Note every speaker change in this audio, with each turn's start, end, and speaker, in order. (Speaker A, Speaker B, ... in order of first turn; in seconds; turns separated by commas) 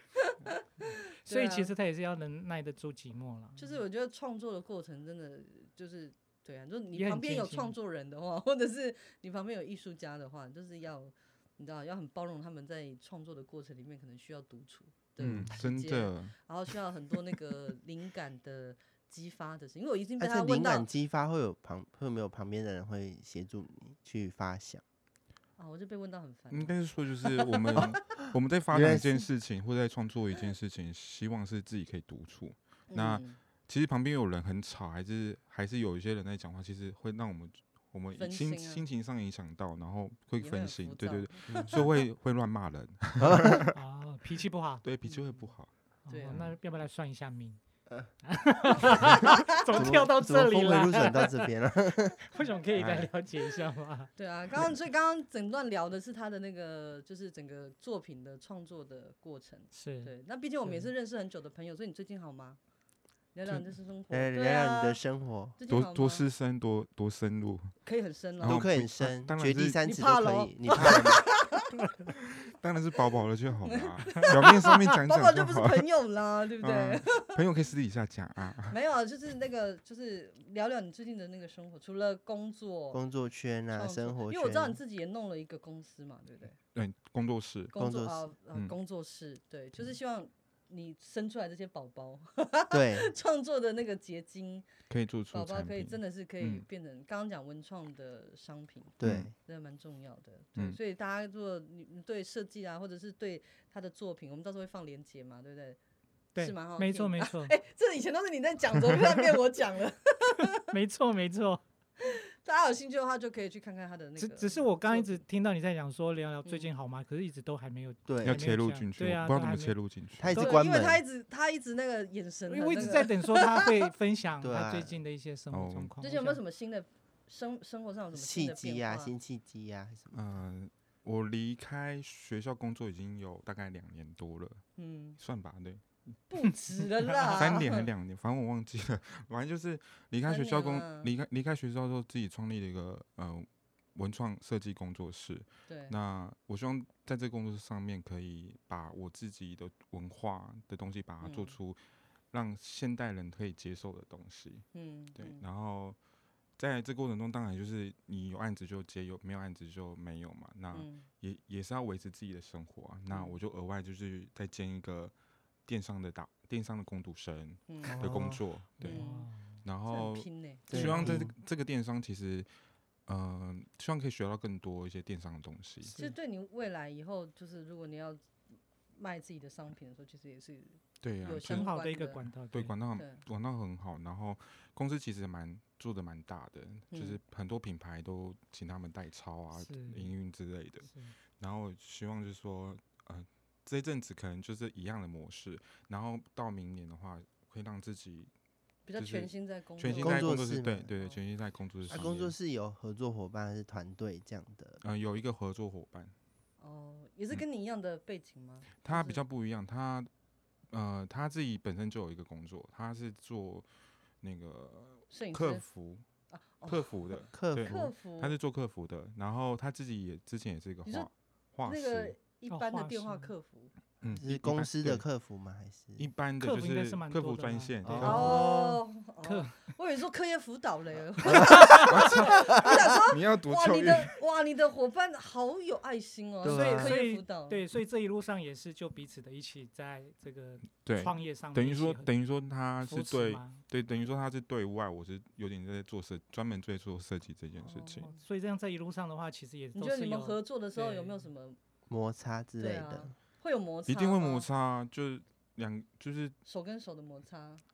Speaker A: 0.2-1.7, Speaker B: 1.2-3.7, Speaker A: 3.6-20.9, Speaker B: 6.9-7.7, Speaker C: 15.2-16.3, Speaker D: 20.2-24.8, Speaker A: 25.6-26.7, Speaker C: 26.5-43.7, Speaker A: 27.5-27.8, Speaker D: 28.7-29.2, Speaker A: 32.9-33.4, Speaker A: 38.1-38.8, Speaker A: 40.4-42.0, Speaker D: 43.2-43.6, Speaker B: 43.7-44.8, Speaker C: 44.8-45.7, Speaker A: 45.0-45.5, Speaker A: 46.1-46.4, Speaker B: 46.1-47.6, Speaker B: 48.2-51.5, Speaker D: 49.7-52.2, Speaker B: 52.3-54.1, Speaker C: 52.7-53.1, Speaker A: 54.1-62.6, Speaker B: 59.7-60.1, Speaker B: 60.6-60.9, Speaker A: 63.3-65.0, Speaker D: 64.1-65.6, Speaker A: 65.6-66.2, Speaker C: 65.7-67.8, Speaker A: 67.8-68.7, Speaker C: 68.4-69.9, Speaker D: 68.4-71.2, Speaker A: 69.8-71.7, Speaker C: 70.7-71.2, Speaker C: 72.4-75.9, Speaker A: 73.7-77.4, Speaker C: 76.6-78.8, Speaker A: 78.7-83.0, Speaker D: 82.9-84.8, Speaker A: 83.7-86.5, Speaker C: 86.7-87.7, Speaker A: 87.7-94.7, Speaker D: 87.8-88.2, Speaker D: 92.7-93.1, Speaker C: 94.9-96.6, Speaker A: 95.3-105.8, Speaker D: 99.0-99.3, Speaker C: 99.0-99.3, Speaker B: 106.3-107.5, Speaker A: 106.4-110.6, Speaker B: 110.7-111.6, Speaker A: 112.0-115.2, Speaker B: 114.2-119.8, Speaker A: 116.4-116.7, Speaker D: 118.1-118.5, Speaker C: 118.2-120.6, Speaker D: 120.2-121.0, Speaker A: 120.3-123.7, Speaker B: 122.5-126.4, Speaker D: 124.4-125.0, Speaker C: 125.5-125.9, Speaker A: 126.0-129.1, Speaker D: 128.1-130.2, Speaker C: 130.1-134.6, Speaker A: 134.8-135.2, Speaker C: 135.2-135.9, Speaker A: 136.3-137.9, Speaker C: 137.2-151.8, Speaker A: 140.3-141.1, Speaker A: 145.7-145.9, Speaker A: 151.2-151.6, Speaker C: 152.3-156.0, Speaker A: 154.7-155.4, Speaker C: 156.6-165.1, Speaker A: 160.7-161.1, Speaker A: 163.1-163.4, Speaker C: 165.7-169.0, Speaker A: 167.7-168.1, Speaker D: 167.8-168.4, Speaker A: 168.8-169.3, Speaker B: 168.8-169.6, Speaker C: 169.6-172.5, Speaker A: 169.9-171.2, Speaker D: 170.7-171.3, Speaker C: 173.1-175.9, Speaker B: 175.8-176.1, Speaker A: 176.0-178.2, Speaker A: 178.9-182.2, Speaker C: 181.0-181.7, Speaker B: 181.4-182.7, Speaker C: 182.5-198.3, Speaker A: 182.9-183.2, Speaker A: 186.9-187.2, Speaker B: 189.5-190.1, Speaker B: 190.9-191.1, Speaker A: 198.9-200.4, Speaker C: 198.9-202.3, Speaker D: 199.9-200.9, Speaker D: 201.9-204.8, Speaker C: 204.8-206.1, Speaker A: 206.6-209.2, Speaker C: 208.8-210.1, Speaker C: 210.7-213.7, Speaker C: 214.2-216.0, Speaker A: 215.1-215.7, Speaker A: 216.3-218.4, Speaker C: 216.6-222.1, Speaker D: 217.3-217.9, Speaker A: 221.6-223.7, Speaker B: 222.5-223.3, Speaker C: 224.0-225.0, Speaker D: 224.1-226.1, Speaker C: 226.0-228.4, Speaker B: 226.4-229.6, Speaker D: 227.8-228.5, Speaker A: 228.0-237.6, Speaker D: 231.3-231.8, Speaker B: 231.3-231.8, Speaker C: 231.5-234.1, Speaker D: 232.4-232.7, Speaker D: 236.4-237.0, Speaker B: 236.4-242.1, Speaker C: 240.8-248.1, Speaker B: 242.8-243.6, Speaker A: 247.6-248.2, Speaker B: 248.0-251.2, Speaker A: 249.7-251.6, Speaker D: 251.9-253.1, Speaker A: 252.6-254.4, Speaker C: 253.9-256.4, Speaker A: 256.4-257.6